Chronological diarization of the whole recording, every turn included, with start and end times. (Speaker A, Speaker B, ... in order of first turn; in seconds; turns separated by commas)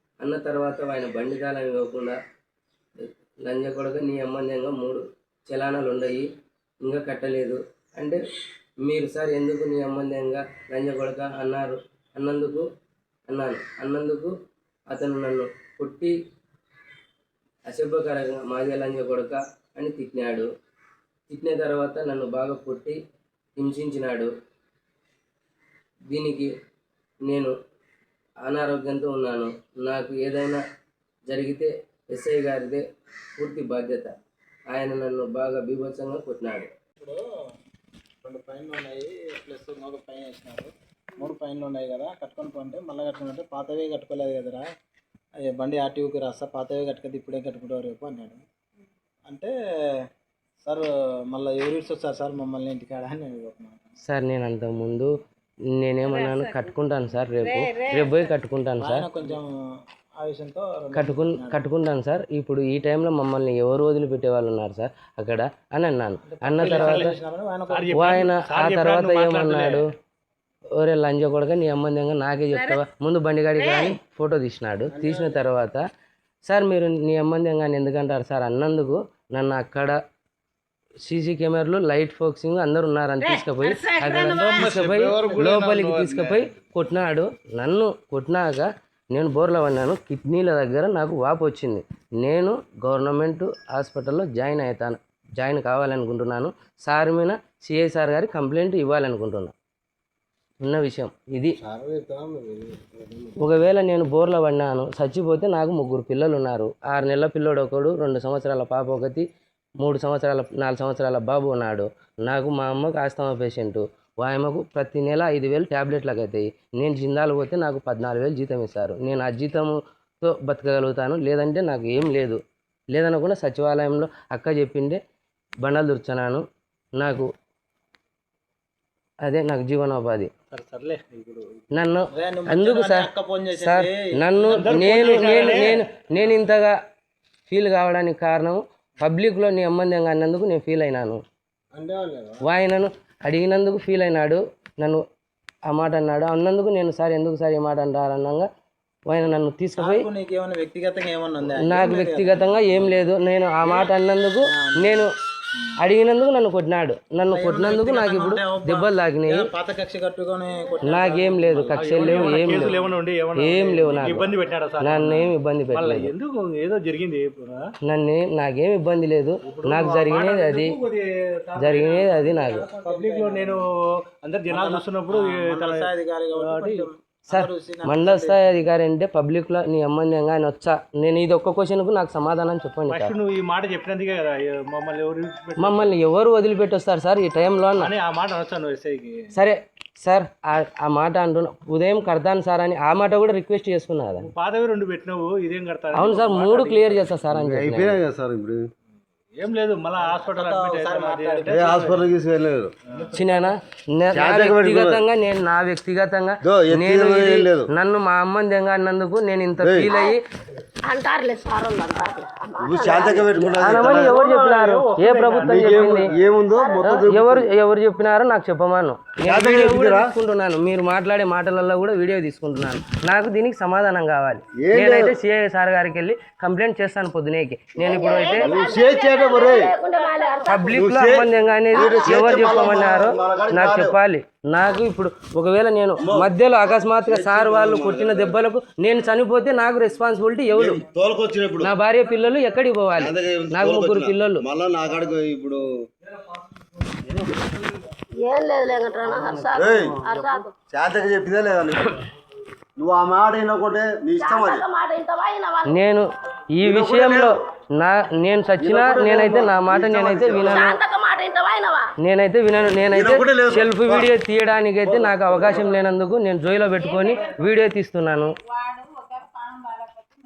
Speaker A: 0.2-2.1, Speaker A: 3.0-6.3, Speaker A: 6.8-8.2, Speaker A: 8.8-12.6, Speaker A: 13.3-14.3, Speaker A: 14.9-16.1, Speaker A: 17.7-20.5, Speaker A: 21.3-23.0, Speaker A: 23.6-24.3, Speaker A: 26.1-26.5, Speaker A: 27.3-27.5, Speaker A: 28.4-30.6, Speaker A: 31.3-32.8, Speaker A: 33.4-34.1, Speaker A: 34.7-36.7, Speaker B: 38.2-44.6, Speaker B: 45.4-48.4, Speaker B: 49.2-49.5, Speaker B: 50.6-53.9, Speaker A: 54.0-55.1, Speaker A: 55.8-59.0, Speaker B: 58.8-59.5, Speaker B: 60.2-61.6, Speaker A: 61.0-67.2, Speaker B: 66.2-68.1, Speaker C: 66.6-67.1, Speaker C: 67.7-69.8, Speaker A: 67.9-69.8, Speaker A: 70.8-75.8, Speaker D: 73.6-73.9, Speaker B: 74.9-75.5, Speaker A: 76.5-80.0, Speaker A: 81.0-99.5, Speaker D: 83.2-84.6, Speaker E: 84.4-86.4, Speaker A: 100.6-101.5, Speaker E: 101.6-103.4, Speaker A: 103.4-109.2, Speaker A: 109.8-122.4, Speaker A: 122.9-125.0, Speaker A: 125.6-126.4, Speaker A: 127.0-127.3, Speaker A: 129.2-130.3, Speaker C: 130.5-131.5, Speaker A: 131.8-136.7, Speaker B: 132.1-135.8, Speaker C: 134.5-135.8, Speaker A: 137.5-141.2, Speaker B: 141.7-142.4, Speaker A: 142.5-145.0, Speaker A: 145.7-148.5, Speaker A: 149.1-150.1, Speaker B: 149.8-153.0, Speaker A: 151.6-155.1, Speaker B: 153.6-153.9, Speaker B: 154.4-155.7, Speaker A: 155.8-159.4, Speaker B: 157.3-163.0, Speaker A: 160.8-162.8, Speaker C: 161.7-167.6, Speaker A: 163.3-166.1, Speaker A: 167.9-170.8, Speaker C: 169.4-172.2, Speaker A: 171.6-172.7, Speaker B: 172.2-173.7, Speaker C: 172.8-176.9, Speaker B: 174.5-178.6, Speaker A: 177.3-183.1, Speaker C: 182.9-185.9, Speaker A: 185.6-187.9, Speaker C: 187.8-189.3, Speaker A: 189.3-194.3, Speaker C: 194.2-197.2, Speaker A: 195.9-198.0, Speaker E: 197.3-198.7, Speaker C: 199.3-202.1, Speaker B: 199.9-201.8, Speaker E: 201.5-202.7, Speaker C: 202.9-203.1, Speaker B: 202.9-203.4, Speaker A: 203.2-210.2, Speaker E: 204.1-205.0, Speaker E: 206.4-207.7, Speaker E: 209.6-209.9, Speaker D: 210.8-213.7, Speaker E: 212.6-214.2, Speaker A: 213.6-216.1, Speaker C: 213.9-216.1, Speaker E: 215.4-217.5, Speaker D: 216.5-217.0, Speaker A: 216.8-228.6, Speaker E: 219.2-220.1, Speaker E: 224.6-225.1, Speaker D: 227.8-230.9, Speaker E: 227.8-229.7, Speaker A: 230.4-240.8, Speaker E: 230.7-234.0, Speaker D: 231.7-232.7, Speaker E: 236.0-238.4, Speaker E: 240.5-241.7, Speaker A: 241.6-244.4, Speaker E: 242.9-245.6, Speaker E: 247.1-247.3, Speaker D: 248.2-250.5, Speaker E: 249.4-252.0, Speaker E: 252.8-254.7, Speaker D: 254.2-255.8, Speaker A: 255.6-256.1, Speaker A: 256.6-260.8, Speaker E: 256.6-257.3, Speaker E: 258.6-260.8, Speaker D: 260.4-261.9, Speaker A: 262.0-268.4, Speaker E: 262.9-264.1, Speaker E: 264.8-265.8, Speaker D: 268.5-269.6